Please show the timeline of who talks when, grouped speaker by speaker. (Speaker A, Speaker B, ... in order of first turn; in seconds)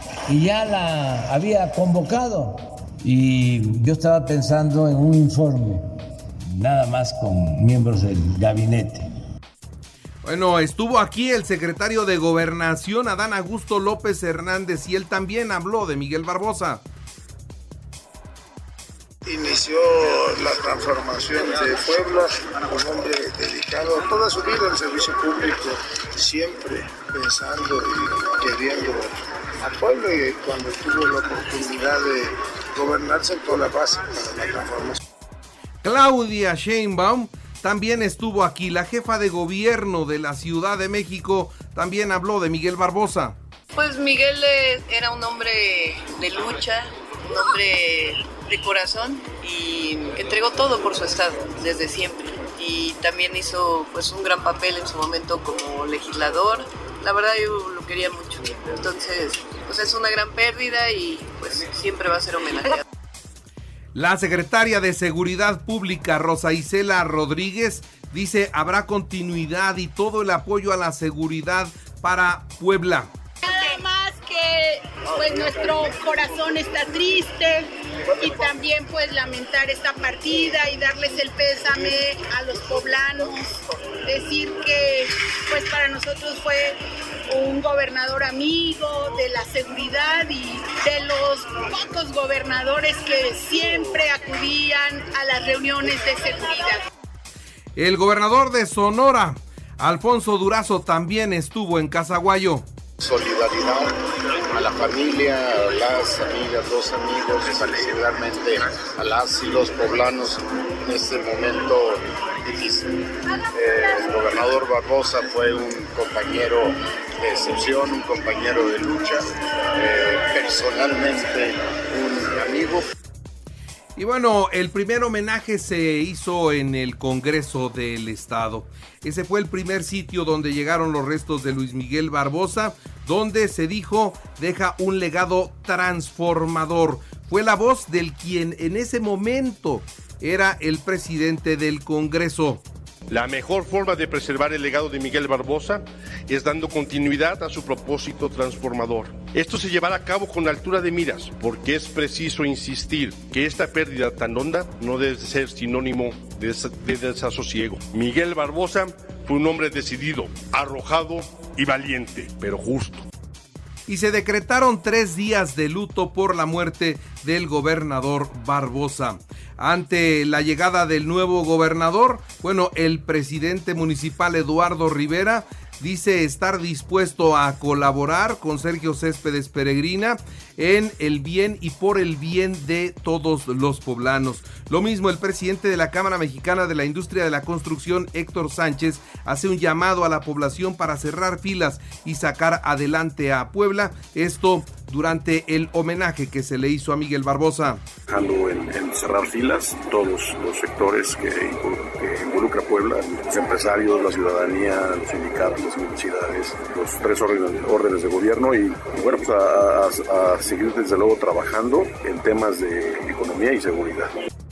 Speaker A: 0.3-5.8, 6.5-9.1
Speaker B: 10.2-16.8, 35.8-43.4, 63.9-73.1, 97.8-102.7, 123.9-142.6, 163.9-197.9
Speaker C: 19.2-29.1, 29.6-35.0
Speaker D: 43.7-62.8
Speaker E: 73.4-96.8
Speaker F: 103.0-103.9, 104.5-112.9, 113.5-122.8
Speaker G: 143.1-163.1
Speaker H: 198.1-214.1